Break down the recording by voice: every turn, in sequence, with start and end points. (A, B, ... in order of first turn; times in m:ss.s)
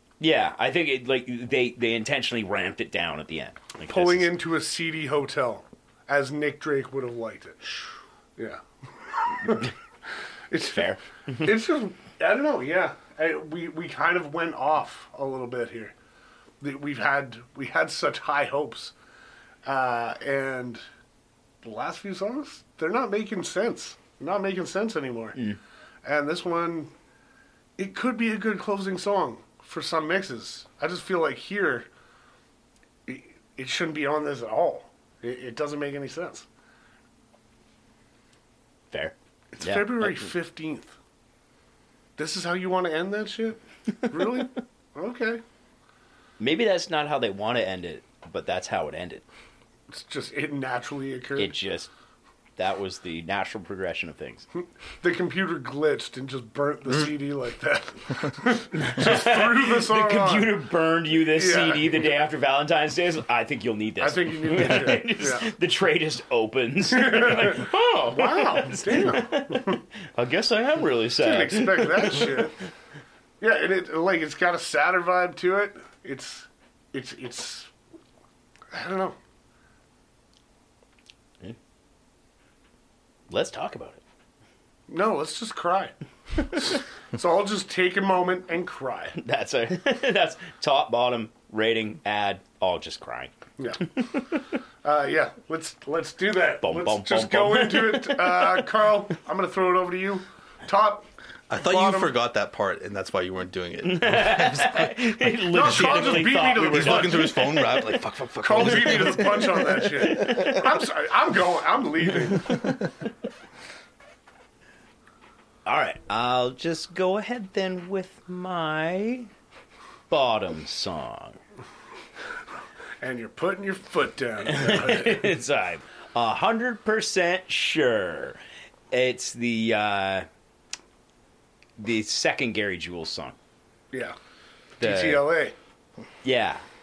0:00.2-0:04.3 A
0:03.9-0:07.7 B
0:08.4-0:09.7 B
0:10.5-0:15.9 B
0:10.7-0:11.5 A
0:16.6-0:18.9 B
0:19.6-0:20.8 B
0:21.6-0:25.4 B
0:26.0-0:26.9 B
0:27.8-0:31.9 B
0:33.1-0:36.5 B
0:38.9-0:40.3 A
0:39.5-0:40.9 B
0:42.2-0:45.4 B
0:46.4-0:49.2 A
0:49.9-0:51.5 B
0:51.4-0:51.9 A
0:52.6-0:54.5 A
0:55.0-1:00.6 B
0:58.7-1:12.5 A
1:01.3-1:02.1 B
1:04.0-1:05.5 B
1:06.9-1:09.8 B
1:11.2-1:12.5 B
1:13.4-1:17.7 B
1:18.7-1:19.2 B
1:23.3-1:24.0 A
1:24.9-1:29.2 B
1:29.2-1:33.3 A
1:33.6-1:33.9 B
1:34.0-1:34.4 A
1:34.8-1:42.1 B
1:36.6-1:38.6 A
1:41.5-1:50.6 C
1:43.8-1:47.6 A
1:45.5-1:47.5 B
1:48.4-1:52.7 B
1:55.6-1:59.3 A
2:00.1-2:01.4 A
2:03.0-2:05.2 B
2:04.5-2:08.4 A
2:08.9-2:10.3 A
2:11.8-2:13.4 A
2:14.8-2:15.3 A
2:14.8-2:15.6 B
2:16.2-2:16.6 A